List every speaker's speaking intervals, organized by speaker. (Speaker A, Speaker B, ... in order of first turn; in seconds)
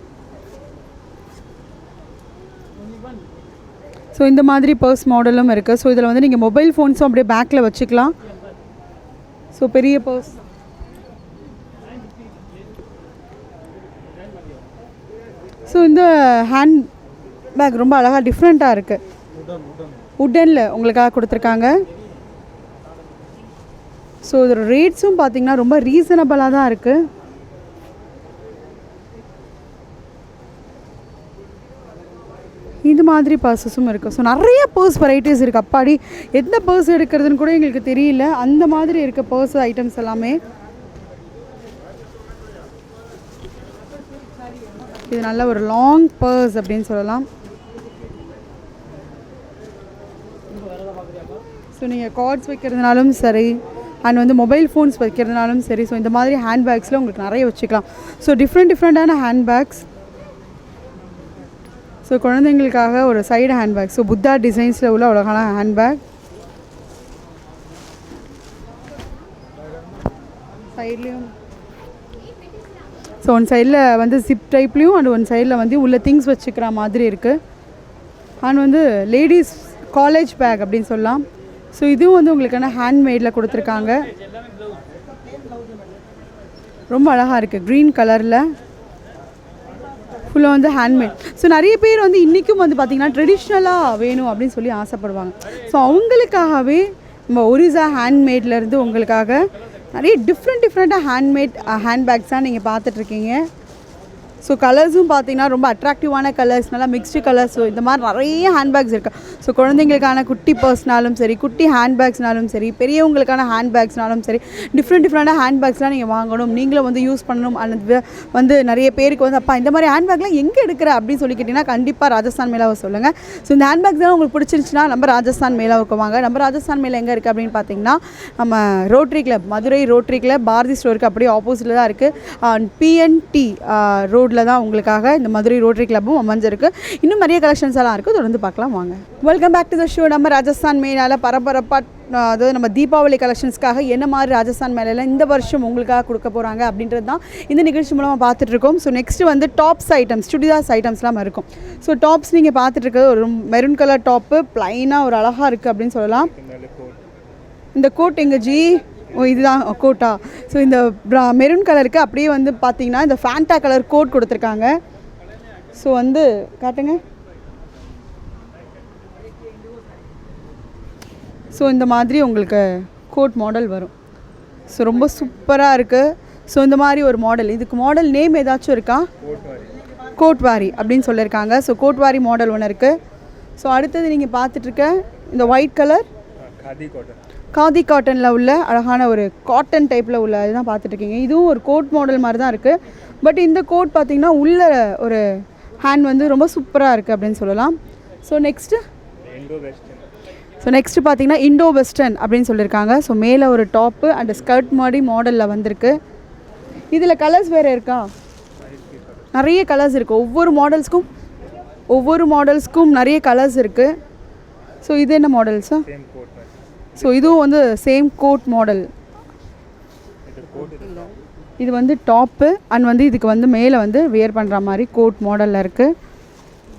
Speaker A: 4.1-8.1, 9.5-10.3, 15.7-16.9, 17.5-19.0, 20.2-21.8, 24.2-27.1, 32.8-40.4, 45.1-47.3, 51.7-59.8, 62.0-66.0, 70.8-71.3, 73.2-77.4, 78.4-84.0, 86.9-88.5, 90.3-103.4, 104.4-156.3, 157.8-164.8, 165.7-167.0, 171.5-173.9, 174.7-179.1, 180.2-183.0, 183.6-186.1, 187.5-198.8, 200.6-206.0, 206.9-208.1, 209.3-211.1, 211.9-213.9, 214.8-215.8, 217.0-218.9, 221.6-225.9
Speaker B: 156.1-157.0, 159.1-159.6, 179.2-179.8, 186.4-187.2, 199.2-200.1, 208.6-209.3, 215.8-217.4, 220.2-221.2